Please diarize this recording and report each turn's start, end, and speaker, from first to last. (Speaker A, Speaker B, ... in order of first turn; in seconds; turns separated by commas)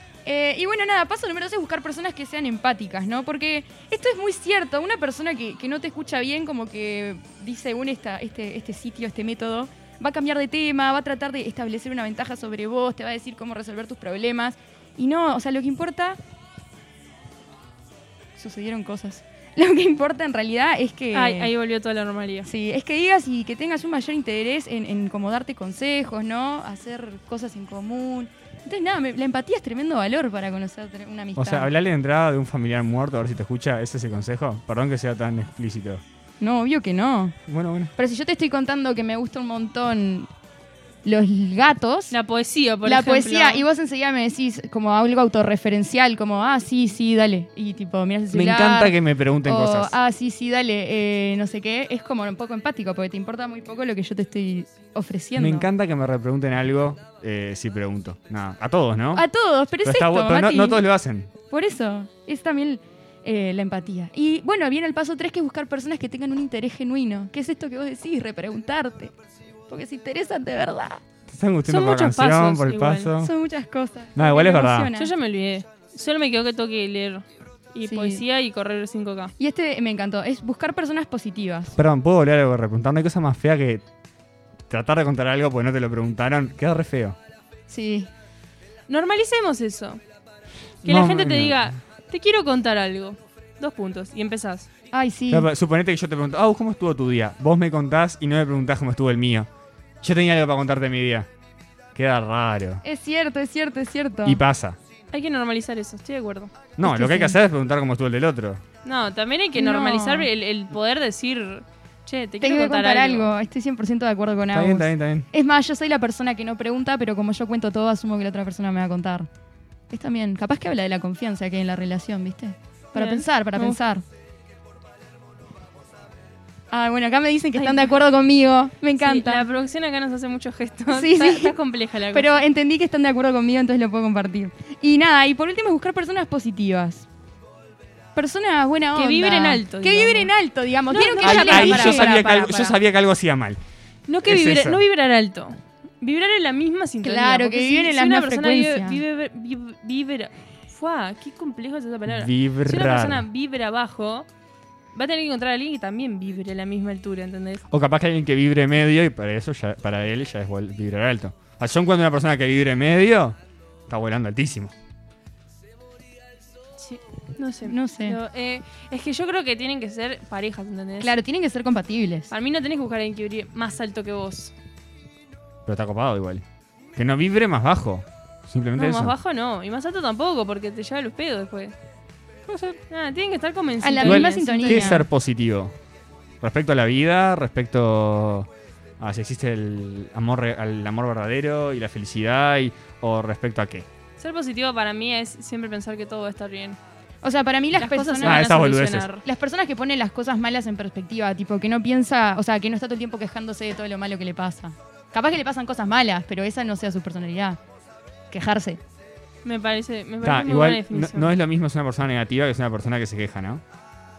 Speaker A: 0.2-16.2, Speaker A: 18.4-21.5, Speaker B: 21.1-22.5, Speaker A: 22.4-31.7, Speaker C: 31.4-36.0, Speaker A: 36.4-37.4, Speaker C: 37.5-37.9, Speaker A: 38.0-40.3, Speaker A: 41.0-42.1, Speaker B: 42.1-43.6, Speaker A: 42.8-55.7, Speaker C: 48.3-49.9, Speaker C: 55.4-59.2, Speaker A: 59.1-60.8, Speaker C: 59.8-61.3, Speaker A: 61.5-69.1, Speaker A: 69.7-71.0, Speaker C: 71.3-73.3, Speaker B: 71.7-73.1, Speaker A: 73.2-75.1, Speaker C: 74.1-74.9, Speaker B: 75.0-79.3, Speaker A: 77.8-78.2, Speaker A: 79.4-81.8, Speaker C: 81.8-83.8, Speaker C: 84.7-87.2, Speaker A: 87.7-88.1, Speaker B: 88.9-90.0, Speaker C: 90.8-91.7, Speaker B: 90.8-94.7, Speaker A: 94.9-95.5, Speaker C: 95.3-99.5, Speaker C: 100.0-101.3, Speaker C: 101.9-102.8, Speaker A: 102.8-104.4, Speaker C: 104.2-104.8, Speaker B: 105.1-106.5, Speaker C: 106.8-108.6, Speaker A: 106.8-107.4, Speaker B: 108.8-113.3, Speaker A: 109.5-110.3, Speaker A: 112.4-119.3, Speaker C: 114.5-115.3, Speaker A: 119.9-124.0, Speaker B: 122.9-123.8, Speaker A: 126.7-129.4, Speaker B: 127.6-127.9, Speaker B: 129.0-132.4, Speaker A: 130.9-131.6, Speaker A: 132.1-137.1, Speaker A: 138.1-142.7, Speaker B: 138.9-140.3, Speaker B: 140.9-142.3, Speaker C: 141.2-143.6, Speaker B: 144.1-154.3, Speaker C: 144.2-144.8, Speaker A: 147.0-149.0, Speaker C: 152.1-153.2, Speaker B: 154.9-157.6, Speaker C: 157.7-163.4, Speaker C: 163.9-164.7, Speaker B: 166.8-171.1, Speaker A: 167.6-168.2, Speaker A: 171.0-172.3, Speaker B: 172.3-174.5, Speaker C: 175.7-176.4, Speaker C: 176.9-179.1, Speaker B: 178.8-181.7, Speaker C: 182.5-182.8, Speaker B: 182.9-185.0, Speaker A: 183.8-185.1, Speaker C: 184.0-185.7, Speaker C: 186.4-188.5, Speaker C: 189.0-193.9, Speaker B: 194.2-196.8, Speaker A: 197.2-198.5, Speaker B: 197.8-199.2, Speaker C: 198.2-199.1, Speaker A: 199.2-207.6, Speaker A: 208.3-208.8, Speaker B: 209.4-211.3, Speaker C: 210.2-213.6